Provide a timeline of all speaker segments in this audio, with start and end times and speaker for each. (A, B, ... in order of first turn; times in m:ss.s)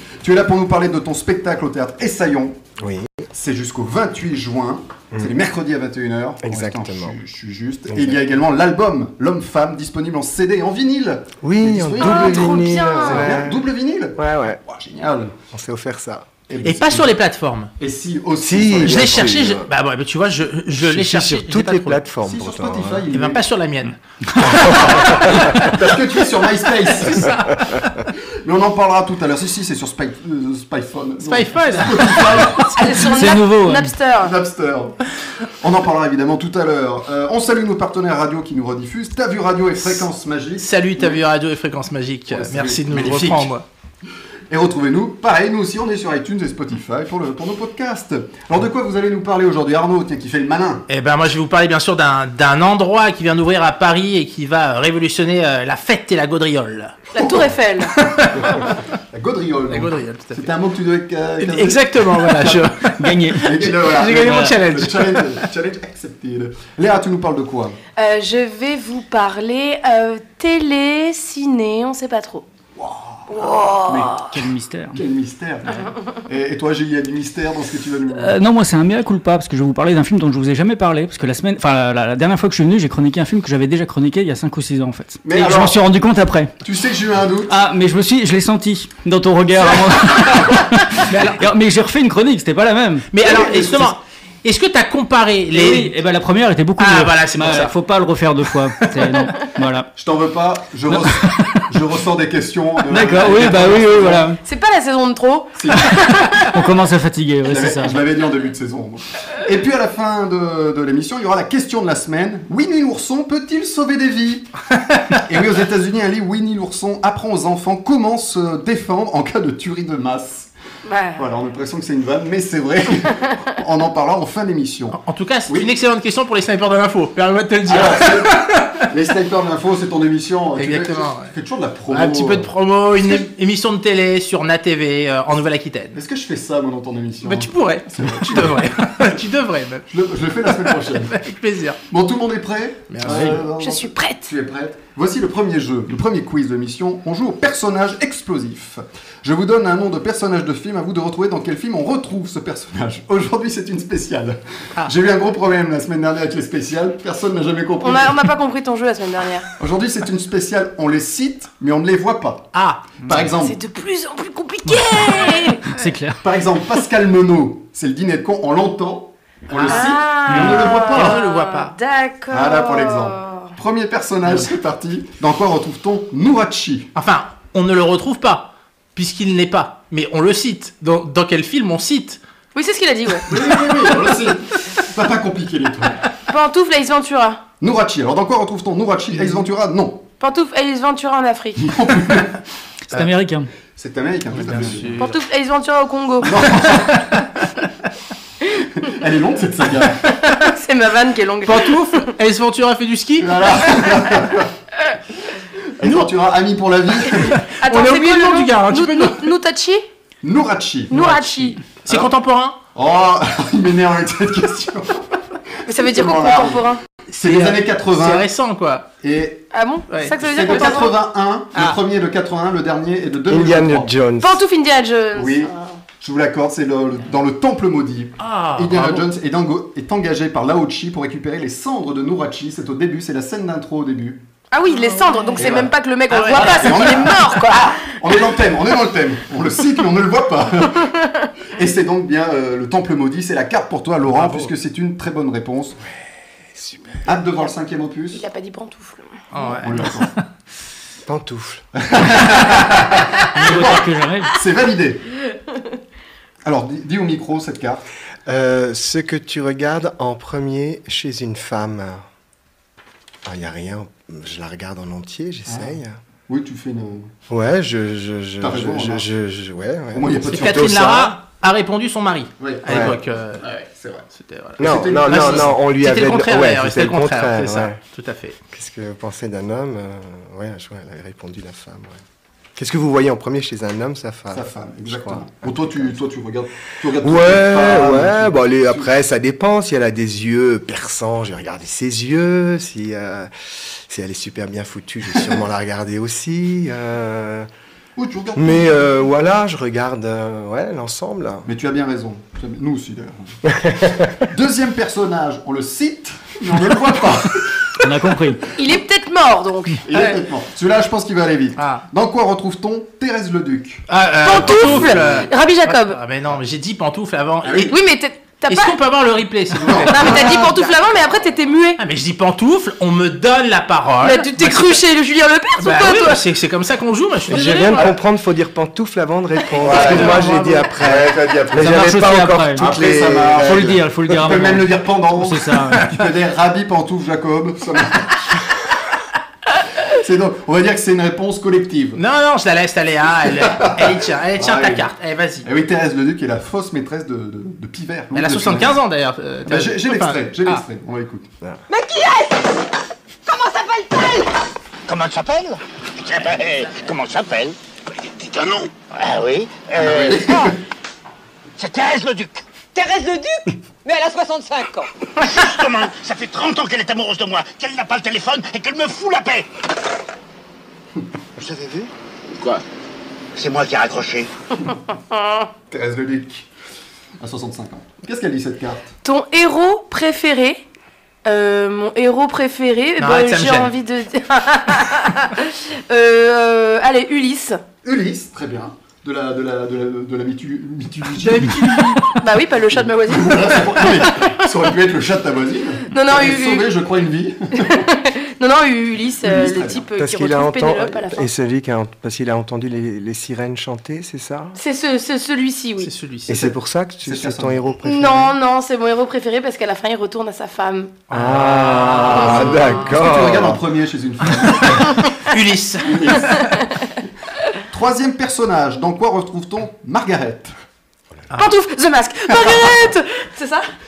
0:00.2-0:02.6 A
0:02.8-0:03.2 B
0:03.3-0:15.3 A
0:06.4-0:07.2 B
0:07.9-0:08.2 B
0:11.4-0:14.6 B
0:12.0-0:13.4 C
0:15.5-0:16.3 B
0:16.5-0:17.1 A
0:16.6-0:17.7 D
0:17.8-0:19.4 A
0:18.4-0:19.7 B
0:18.8-0:22.0 D
0:20.8-0:23.0 B
0:22.2-0:23.4 A
0:23.1-0:25.3 D
0:24.6-0:27.5 A
0:27.1-0:27.4 D
0:28.4-0:33.4 A
0:31.2-0:32.6 D
0:32.8-0:34.3 C
0:33.0-0:33.9 E
0:34.2-0:35.0 A
0:35.6-0:41.2 A
0:40.6-0:43.6 D
0:42.3-0:43.5 A
0:44.5-0:50.8 A
0:50.9-0:57.0 D
0:57.1-0:57.9 C
0:57.2-0:57.5 A
0:58.0-0:58.7 D
0:58.4-1:02.7 A
0:59.7-1:00.5 D
1:01.4-1:05.4 D
1:03.0-1:04.5 E
1:03.3-1:07.8 A
1:08.0-1:12.5 C
1:12.8-1:14.2 A
1:13.3-1:14.3 C
1:14.2-1:15.0 E
1:14.9-1:18.4 A
1:18.1-1:26.5 E
1:25.2-1:25.9 A
1:26.6-1:27.6 A
1:27.5-1:33.1 E
1:31.1-1:31.4 D
1:33.1-1:36.0 D
1:33.2-1:33.9 A
1:35.5-1:39.9 E
1:36.8-1:37.7 D
1:40.0-1:44.3 A
1:41.0-1:41.7 E
1:42.9-1:44.4 E
1:44.4-1:46.5 C
1:45.6-1:46.0 A
1:46.4-1:48.0 E
1:47.4-1:54.5 A
1:55.1-2:00.5 A
2:00.8-2:01.2 C
2:01.2-2:05.0 A
2:04.9-2:08.8 D
2:07.7-2:13.3 A
2:10.6-2:11.3 D
2:11.9-2:16.0 D
2:15.9-2:18.7 A
2:17.2-2:19.9 D
2:19.9-2:21.2 A
2:20.4-2:21.8 D
2:21.9-2:38.2 A
2:22.9-2:23.4 D
2:23.0-2:23.4 E
2:23.6-2:24.3 C
2:37.8-2:39.5 C
2:39.6-2:42.5 A
2:42.5-2:43.0 D
2:43.1-2:43.6 A
2:43.4-2:45.6 C
2:44.7-2:46.2 E
2:46.2-2:51.2 A
2:49.5-2:51.7 D
2:49.7-2:53.5 C
2:50.3-2:50.7 E
2:52.3-2:56.9 A
2:56.9-3:02.2 D
3:02.5-3:03.3 C
3:03.3-3:06.0 A
3:06.3-3:07.4 C
3:07.6-3:10.0 A
3:09.1-3:09.4 D
3:10.2-3:11.7 C
3:11.6-3:12.4 A
3:12.9-3:13.5 E
3:13.8-3:15.0 A
3:14.3-3:15.1 D
3:15.0-3:16.3 C
3:16.2-3:17.2 A
3:18.8-3:20.1 A
3:20.2-3:21.8 C
3:21.4-3:23.7 D
3:23.2-3:24.5 A
3:25.8-3:27.4 A
3:25.8-3:26.1 D
3:27.3-3:29.3 D
3:27.6-3:29.8 C
3:30.2-3:31.2 A
3:30.9-3:31.6 C
3:31.7-3:32.6 D
3:31.8-3:32.1 A
3:32.7-3:35.2 A
3:35.7-3:36.8 C
3:35.7-3:36.7 A
3:37.1-3:38.9 D
3:37.2-3:38.2 A
3:39.0-3:39.4 A
3:39.5-3:40.9 C
3:39.9-3:40.8 D
3:40.2-3:43.9 A
3:43.3-3:44.4 B
3:44.2-3:45.8 C
3:45.1-3:54.2 A
3:48.2-3:49.1 D
3:54.5-3:57.7 C
3:54.7-3:57.1 D
3:55.4-3:55.7 A
3:56.3-4:00.9 A
4:01.5-4:05.8 A
4:06.5-4:07.0 B
4:07.0-4:08.2 A
4:08.1-4:09.1 C
4:09.3-4:09.9 D
4:09.4-4:10.1 A
4:11.0-4:11.6 B
4:11.8-4:15.0 A
4:13.2-4:14.3 E
4:16.4-4:17.8 A
4:18.3-4:22.0 B
4:23.2-4:26.0 B
4:25.5-4:25.7 A
4:26.3-4:27.1 A
4:27.3-4:31.2 B
4:28.4-4:29.1 A
4:29.9-4:30.9 A
4:30.3-4:33.4 D
4:32.4-4:34.0 A
4:32.6-4:33.0 B
4:34.1-4:38.4 D
4:34.6-4:35.6 A
4:34.6-4:37.8 B
4:38.5-4:42.0 B
4:42.6-4:46.0 B
4:44.3-4:48.9 A
4:47.0-4:57.5 B
4:58.0-4:58.8 A
4:58.3-5:01.5 B
5:01.4-5:03.4 A
5:03.5-5:04.1 B
5:04.3-5:07.7 A
5:07.8-5:08.4 E
5:08.6-5:10.1 C
5:09.9-5:15.2 A
5:11.6-5:11.8 D
5:13.9-5:17.8 D
5:14.2-5:16.0 C
5:17.4-5:17.7 A
5:17.6-5:18.8 C
5:18.5-5:20.5 D
5:19.5-5:20.4 A
5:19.8-5:21.8 C
5:21.8-5:24.8 D
5:24.0-5:26.2 C
5:25.6-5:27.9 D
5:27.3-5:33.8 B
5:29.6-5:32.0 A
5:30.0-5:30.5 C
5:31.5-5:35.9 E
5:32.6-5:38.4 A
5:39.9-5:42.0 A
5:42.0-5:45.5 D
5:43.3-5:44.9 A
5:45.4-5:48.7 A
5:48.1-5:50.6 D
5:49.4-5:51.3 A
5:51.7-5:52.6 F
5:53.2-5:54.3 F
5:54.9-6:00.5 G
5:59.8-6:00.6 A
6:01.6-6:02.4 G
6:02.7-6:04.9 F
6:05.2-6:09.5 G
6:11.4-6:11.9 G
6:13.3-6:14.3 G
6:15.7-6:16.5 A
6:17.2-6:18.9 A
6:19.0-6:20.6 C
6:21.2-6:27.6 C
6:23.0-6:23.7 D
6:27.8-6:32.0 A
6:31.2-6:31.5 D
6:31.6-6:33.9 C
6:32.8-6:37.8 A
6:35.9-6:36.7 C
6:37.6-6:41.3 C
6:39.2-6:39.9 A
6:40.0-6:44.6 B
6:44.6-6:45.9 C
6:45.8-6:46.5 D
6:46.3-6:48.3 B
6:47.0-6:47.7 A
6:47.8-6:51.0 C
6:51.1-6:53.0 D
6:51.1-6:53.6 B
6:52.0-6:55.1 A
6:55.2-6:56.5 D
6:55.8-6:56.5 A
6:57.7-7:00.5 A
7:01.4-7:03.6 C
7:02.3-7:02.9 A